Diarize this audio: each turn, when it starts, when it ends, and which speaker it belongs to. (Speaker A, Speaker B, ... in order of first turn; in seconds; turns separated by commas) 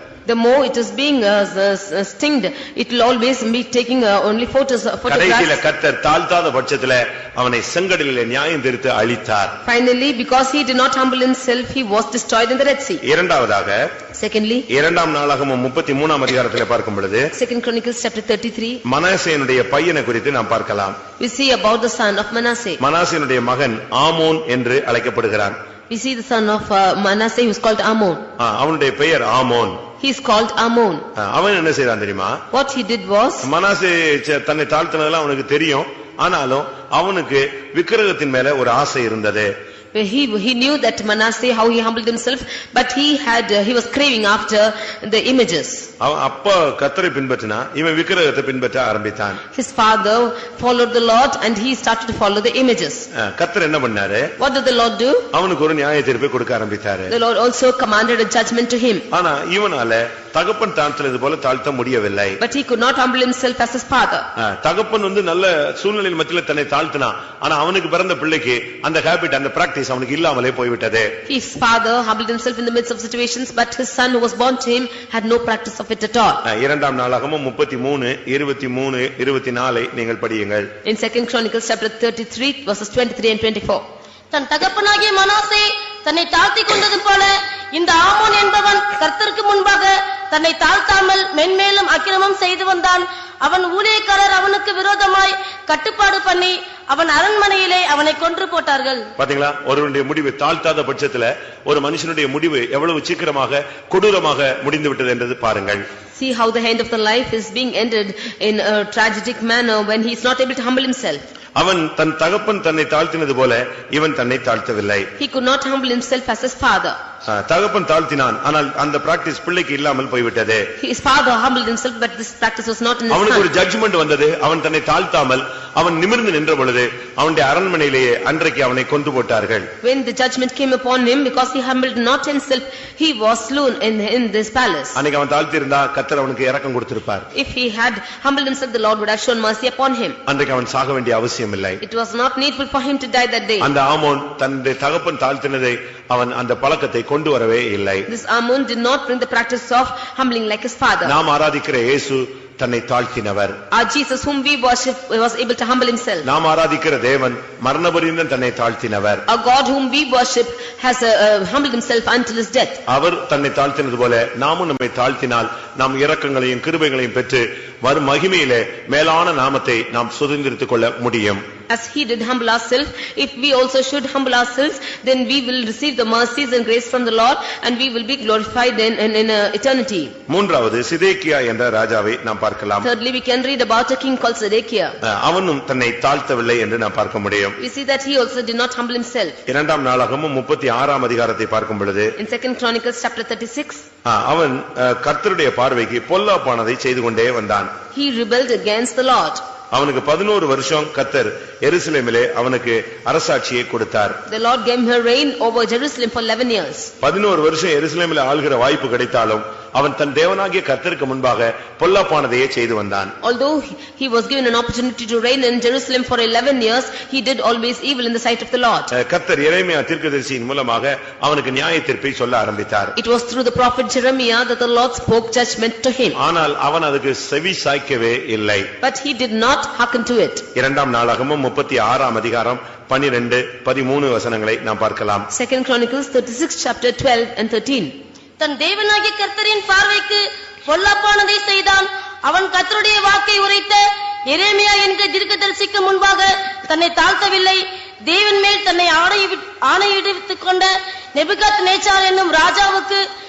Speaker A: 0.2-5.6, Speaker B: 5.1-9.6, Speaker A: 9.6-13.0, Speaker B: 13.0-13.8, Speaker A: 14.1-14.7, Speaker B: 14.7-17.3, Speaker A: 17.3-18.8, Speaker B: 18.8-21.0, Speaker A: 21.2-22.8, Speaker B: 22.8-25.6, Speaker A: 25.9-28.2, Speaker B: 28.4-29.8, Speaker A: 30.0-31.1, Speaker B: 31.1-32.4, Speaker A: 32.5-33.5, Speaker B: 33.4-39.5, Speaker A: 39.9-45.9, Speaker B: 46.0-49.4, Speaker A: 49.5-53.1, Speaker B: 53.1-54.3, Speaker A: 54.4-55.3, Speaker B: 55.3-57.1, Speaker A: 57.1-59.0, Speaker B: 59.1-62.4, Speaker A: 62.4-64.2, Speaker B: 64.3-71.1, Speaker A: 71.3-76.4, Speaker B: 76.4-80.7, Speaker A: 80.8-83.8, Speaker C: 84.3-99.1, Speaker B: 99.2-105.8, Speaker A: 106.1-111.2, Speaker B: 111.6-115.1, Speaker A: 115.2-117.0, Speaker B: 117.2-120.7, Speaker A: 120.8-123.5, Speaker B: 123.1-129.7, Speaker A: 129.8-135.0, Speaker B: 134.9-137.3, Speaker A: 137.3-140.2, Speaker B: 140.3-141.8, Speaker A: 141.8-143.7, Speaker B: 143.6-148.1, Speaker A: 148.1-151.1, Speaker B: 151.0-153.6, Speaker A: 153.7-156.3, Speaker B: 156.2-159.2, Speaker A: 159.3-162.8, Speaker B: 162.9-171.4, Speaker A: 171.7-180.1, Speaker B: 180.3-182.8, Speaker A: 182.8-184.9, Speaker B: 185.0-187.6, Speaker A: 187.6-189.4, Speaker B: 189.5-192.1, Speaker A: 192.2-193.8, Speaker B: 194.0-197.7, Speaker A: 197.9-199.4, Speaker B: 199.7-204.2, Speaker A: 204.3-206.9, Speaker B: 207.0-213.1, Speaker A: 213.2-218.9, Speaker B: 218.9-222.9, Speaker A: 222.9-226.2, Speaker B: 226.1-228.7, Speaker A: 228.8-230.4, Speaker B: 230.5-235.3, Speaker A: 235.3-237.9, Speaker C: 238.4-253.0